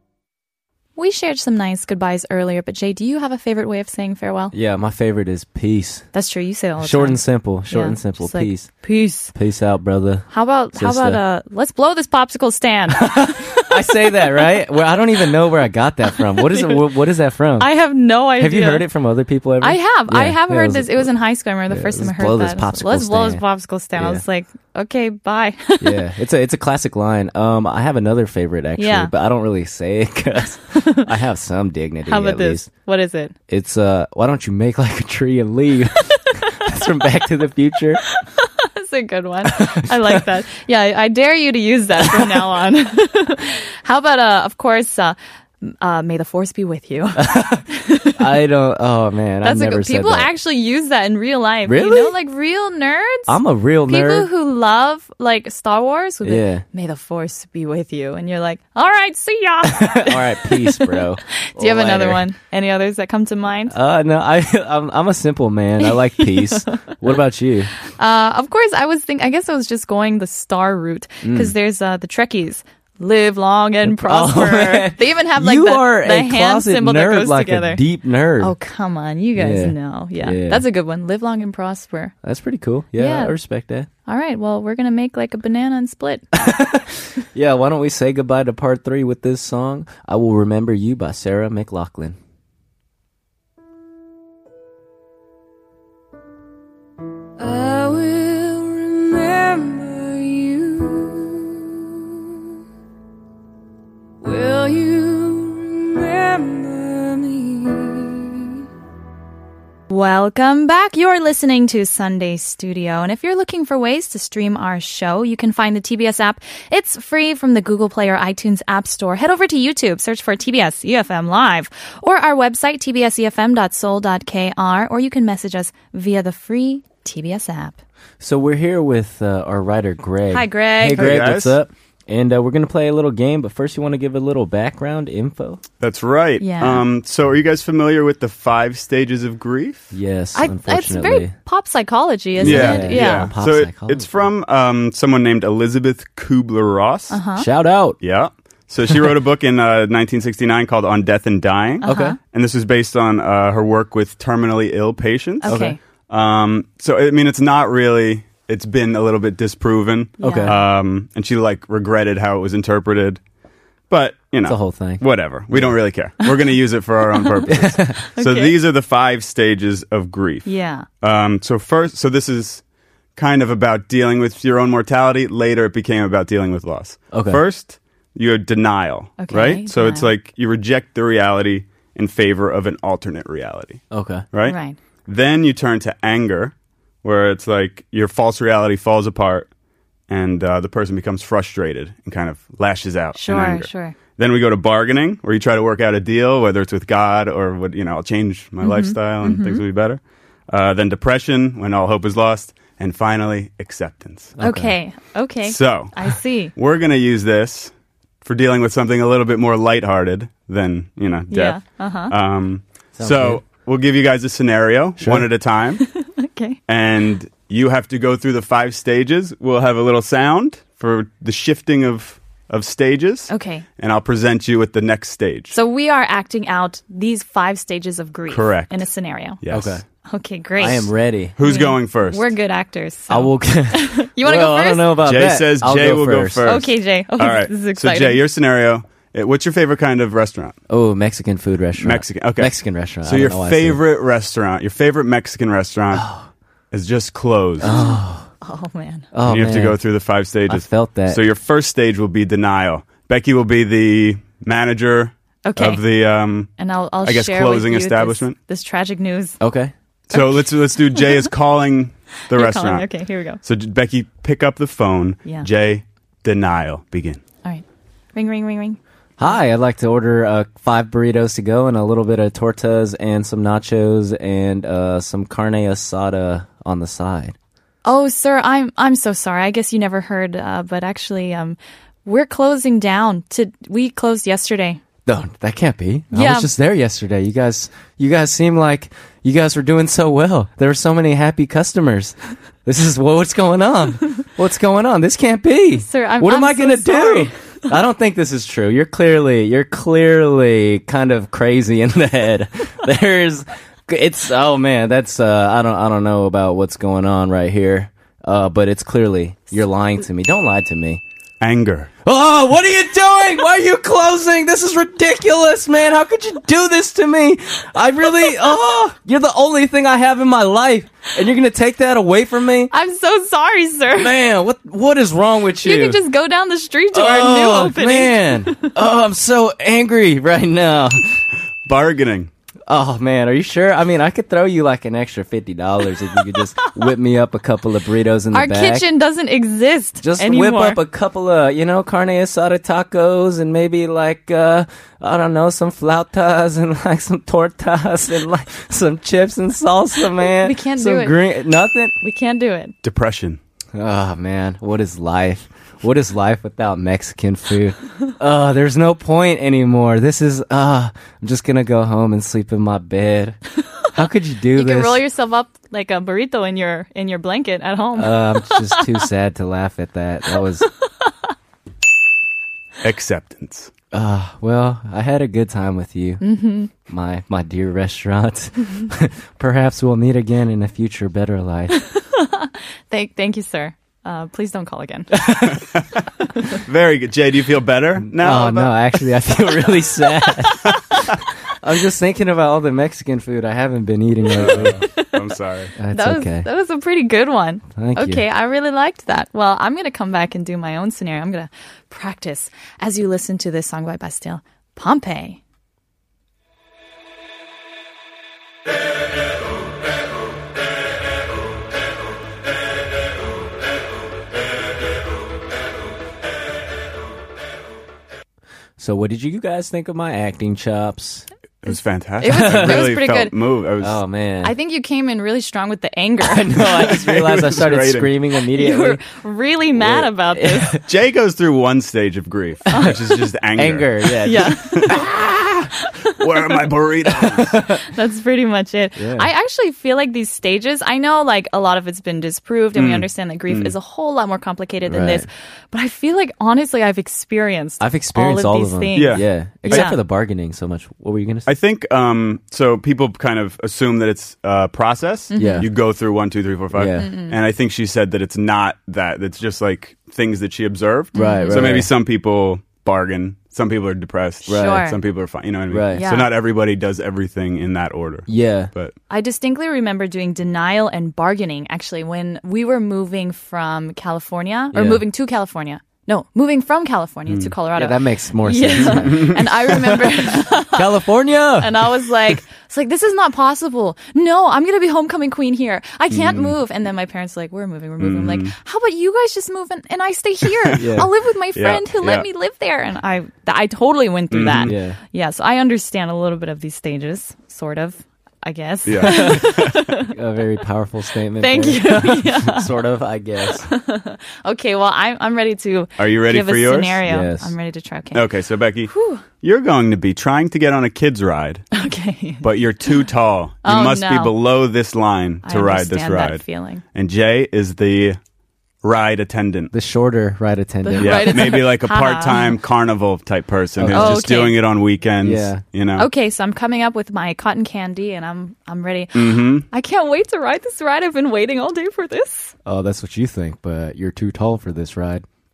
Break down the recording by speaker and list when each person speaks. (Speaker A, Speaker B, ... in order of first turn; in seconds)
Speaker A: 1.0-4.5, 6.1-9.3, 10.3-13.8, 16.3-16.8, 17.6-18.9, 19.6-26.0, 28.8-29.1, 30.7-31.1, 32.1-33.4, 38.1-48.2, 49.4-63.8, 65.8-66.8, 67.9-77.8, 78.4-82.1, 83.0-83.4, 84.1-86.4, 109.9-127.8, 130.3-131.2, 136.4-136.8, 140.3-143.3, 147.1-147.5, 151.8-152.2, 155.4-155.8, 160.2-160.6, 168.1-168.6, 170.4-170.9, 179.2-180.1, 184.4-184.8, 193.2-194.0, 198.6-199.6, 204.4-206.5, 211.3-212.1, 215.8-216.6, 223.3-223.7, 225.5-229.4, 230.1-235.0, 236.4-238.2, 247.6-249.1, 255.4-255.8, 256.6-259.4, 260.1-261.2, 262.3-263.4, 267.4-269.4, 277.8-284.8, 286.1-286.5, 295.8-297.3, 322.7-324.1, 325.6-328.7, 338.3-340.8, 350.3-351.2, 352.0-352.8, 364.5-369.1, 376.2-376.7, 381.7-385.3, 390.4-390.7, 394.8-395.2, 395.9-405.4, 422.2-423.3, 424.4-426.7, 428.6-430.8, 432.7-433.0, 434.2-435.0, 435.9-436.2, 437.9-450.0, 455.3-455.7, 457.0-457.4, 461.1-461.8, 464.5-465.0, 465.9-466.3, 469.1-480.9, 481.6-500.1, 501.4-502.7, 503.6-508.3, 508.9-509.2, 511.7-513.0, 513.6-514.3, 515.5-516.8, 520.8-522.6, 523.9-524.6, 526.0-532.5
Speaker B: 4.5-6.1, 6.8-11.2, 13.0-17.7, 18.4-21.1, 21.7-23.4, 24.0-24.2, 25.8-32.7, 33.5-38.0, 39.5-40.2, 42.0-42.5, 47.2-50.3, 51.7-52.1, 53.3-54.3, 56.2-56.6, 59.7-62.3, 63.7-67.7, 71.2-71.5, 73.8-78.5, 79.4-80.7, 82.2-83.9, 86.3-92.2, 128.2-135.6, 139.9-141.3, 142.4-144.3, 147.4-148.0, 151.8-152.2, 155.5-155.8, 160.2-160.6, 164.4-165.8, 167.5-168.0, 177.1-177.4, 183.9-184.2, 204.4-204.8, 213.0-213.4, 215.0-215.3, 229.5-229.8, 230.6-231.4, 233.1-236.6, 240.7-243.8, 245.9-246.3, 247.6-248.3, 249.1-249.8, 250.5-251.2, 259.4-259.7, 269.2-277.4, 285.1-311.0, 312.1-322.7, 324.0-326.0, 326.9-331.2, 332.7-338.9, 340.0-351.9, 353.8-365.0, 368.0-370.7, 373.9-376.2, 376.8-381.8, 385.3-385.5, 388.0-394.8, 395.8-396.5, 397.8-398.2, 418.8-421.3, 422.3-422.9, 423.8-424.5, 426.2-429.0, 429.8-430.8, 433.6-435.7, 437.1-437.8, 439.0-439.3, 444.9-445.3, 447.8-451.5, 455.4-455.7, 456.7-457.1, 461.1-461.9, 464.5-464.8, 465.7-466.1, 468.3-468.7, 474.7-475.0, 477.8-481.9, 490.8-491.1, 494.6-495.0, 499.0-503.7, 507.1-507.5, 519.7-521.6, 523.8-524.2, 525.2-525.6, 532.6-535.2
Speaker C: 97.4-102.2, 104.2-108.5
Speaker D: 131.0-131.6, 135.8-139.9, 142.4-147.2, 148.0-163.2, 163.9-170.5, 171.0-172.6, 173.2-189.5, 190.1-204.3, 205.4-207.7, 208.2-215.8, 216.7-225.6, 228.3-228.8, 229.4-229.8, 231.4-232.3, 235.0-240.6, 241.8-246.1, 246.7-247.8, 249.2-256.5, 257.0-258.4, 260.1-262.9, 263.4-267.2, 311.4-311.9, 331.7-332.3, 352.8-353.4, 372.8-373.7, 385.4-388.9, 394.3-395.7, 421.6-424.0, 426.7-428.1, 430.8-433.9, 434.8-435.0, 436.2-437.6, 442.8-443.7, 448.9-449.9, 451.5-468.9, 478.8-479.4, 486.1-486.6, 488.0-488.5, 491.6-492.3, 494.3-494.7, 498.9-499.9, 506.0-507.0, 508.1-511.7, 512.4-518.2, 518.8-519.7, 521.0-526.1, 529.1-529.7